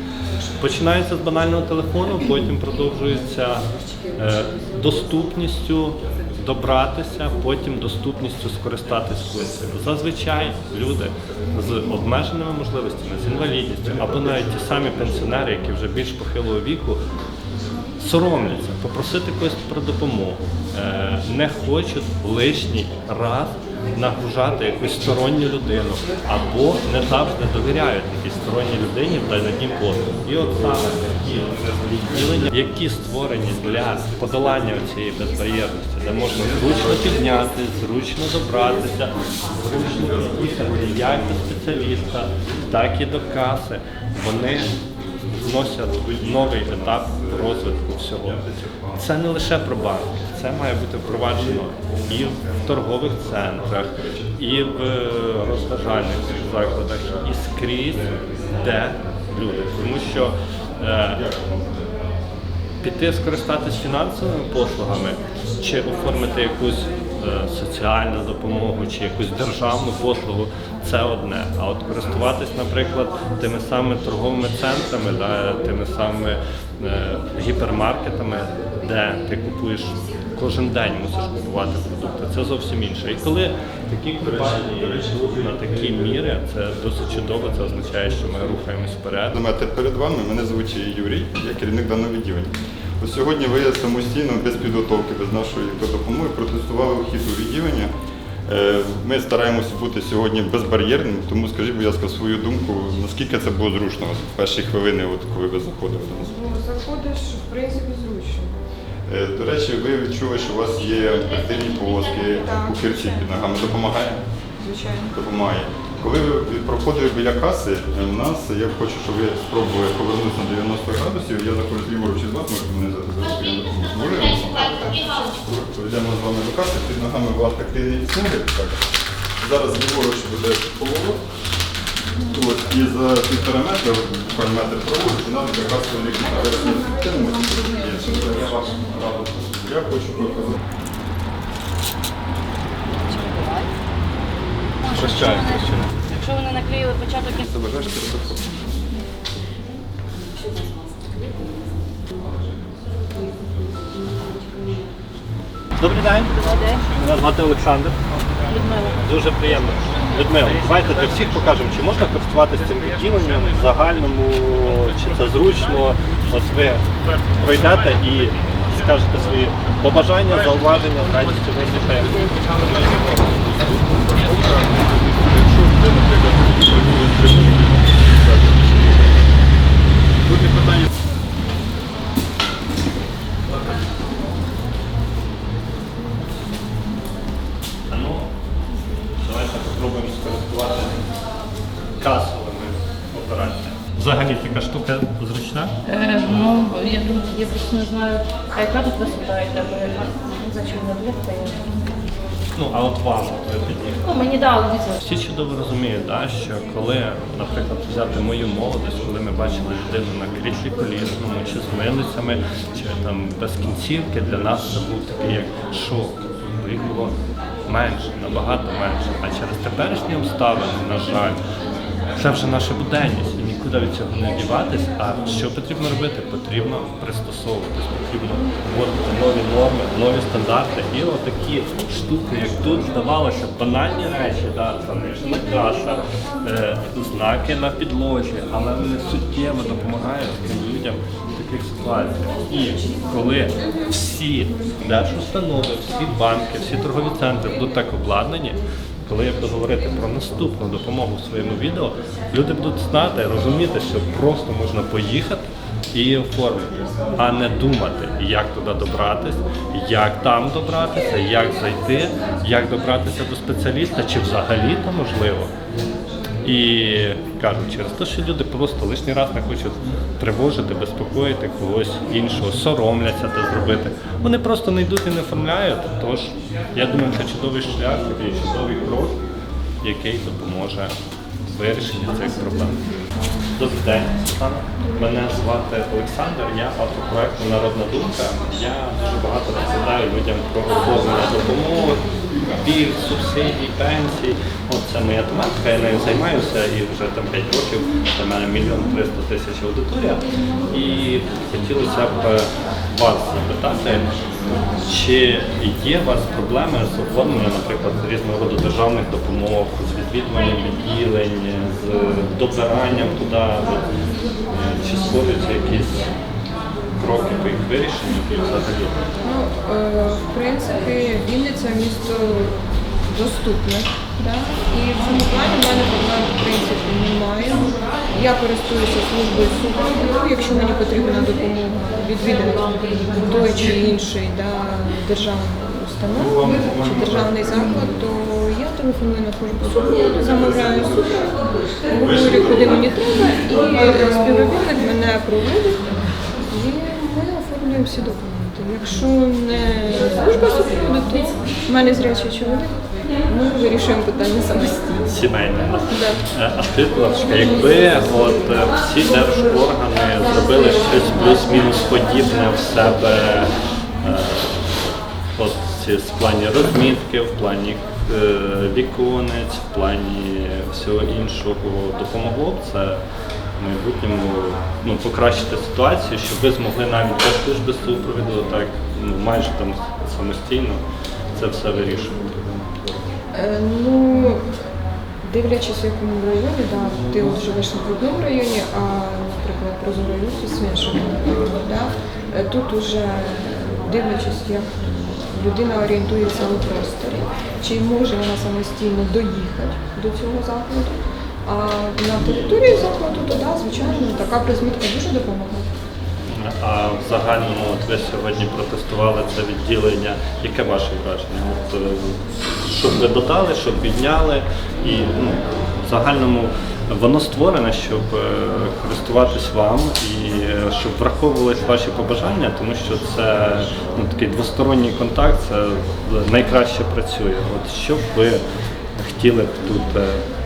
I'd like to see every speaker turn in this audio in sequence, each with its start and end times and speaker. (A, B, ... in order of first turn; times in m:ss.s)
0:00.6-0:17.0 A
0:18.0-0:44.8 A
0:45.4-1:01.2 A
0:48.2-0:48.9 B
1:01.2-1:01.7 B
1:02.8-1:29.3 A
1:29.3-1:37.9 B
1:38.5-1:46.3 B
1:46.2-1:48.5 C
1:49.1-1:54.2 B
1:52.3-1:53.3 C
1:54.6-1:55.1 C
1:55.1-2:08.8 B
2:09.4-2:11.2 B
2:12.3-2:20.6 B
2:16.4-2:18.7 C
2:23.0-2:23.7 D
2:24.8-2:27.4 D
2:24.9-2:25.9 B
2:27.3-2:28.8 B
2:35.8-2:38.0 A
2:36.4-2:36.8 D
2:38.5-2:39.0 D
2:38.8-2:54.4 A
2:53.9-2:59.0 B
3:00.2-3:00.8 B
3:07.9-3:08.3 A
3:09.2-3:11.0 A
3:12.0-3:15.8 A
3:15.8-3:21.8 D
3:22.5-3:24.2 A
3:24.0-3:25.0 D
3:25.0-3:41.4 A
3:42.1-4:25.5 A
4:26.4-4:39.2 A
4:39.8-4:40.9 A
4:41.4-4:42.9 A
4:43.5-5:04.1 A
5:04.8-5:13.9 A
5:14.5-5:16.1 A
5:17.0-5:18.9 A
5:19.2-5:45.9 C
5:46.4-5:55.1 C
5:55.1-6:13.0 A
5:55.9-5:56.2 C
6:13.6-6:20.8 A
6:21.3-6:22.4 A
6:23.3-6:24.4 C
6:25.2-6:45.7 C
6:46.3-7:08.4 A
7:09.0-7:10.2 A